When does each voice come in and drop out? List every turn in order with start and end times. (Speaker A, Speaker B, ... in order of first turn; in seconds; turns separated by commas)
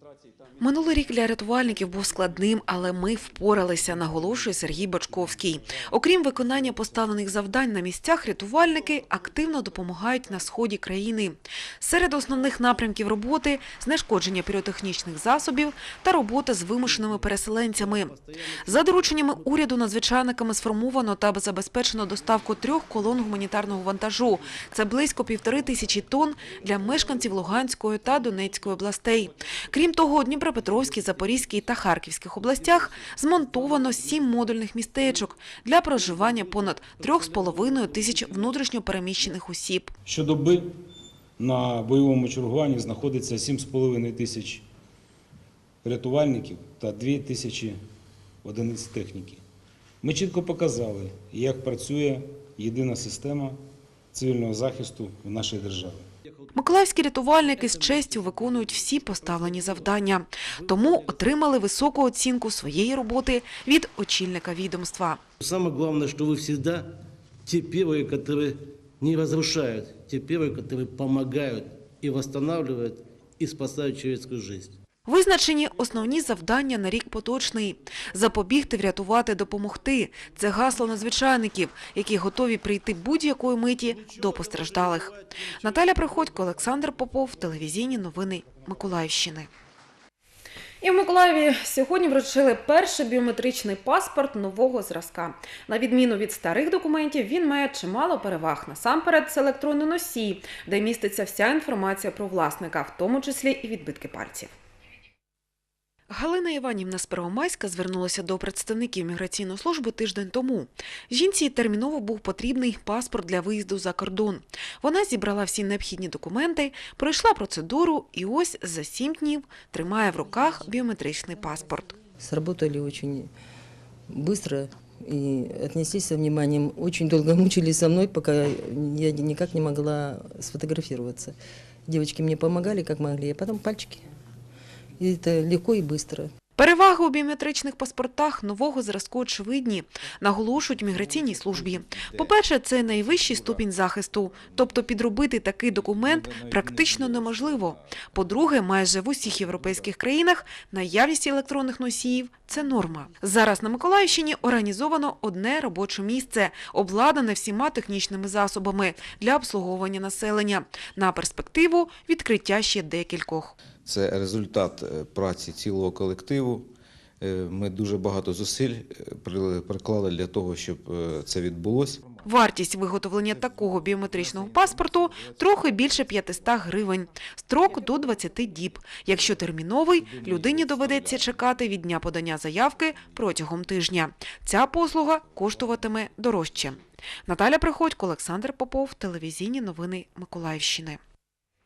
Speaker A: 0.6-39.9, Speaker B: 40.1-40.8, Speaker B: 41.4-44.6, Speaker B: 45.8-47.8, Speaker B: 48.4-49.4, Speaker B: 50.0-56.1, Speaker A: 56.6-65.2, Speaker C: 65.4-74.8, Speaker A: 75.1-89.5, Speaker A: 90.8-104.5, Speaker A: 106.1-121.9, Speaker D: 122.2-123.3, Speaker D: 124.1-134.1, Speaker D: 135.0-136.3, Speaker A: 136.6-163.6, Speaker E: 163.8-172.1, Speaker A: 172.2-191.0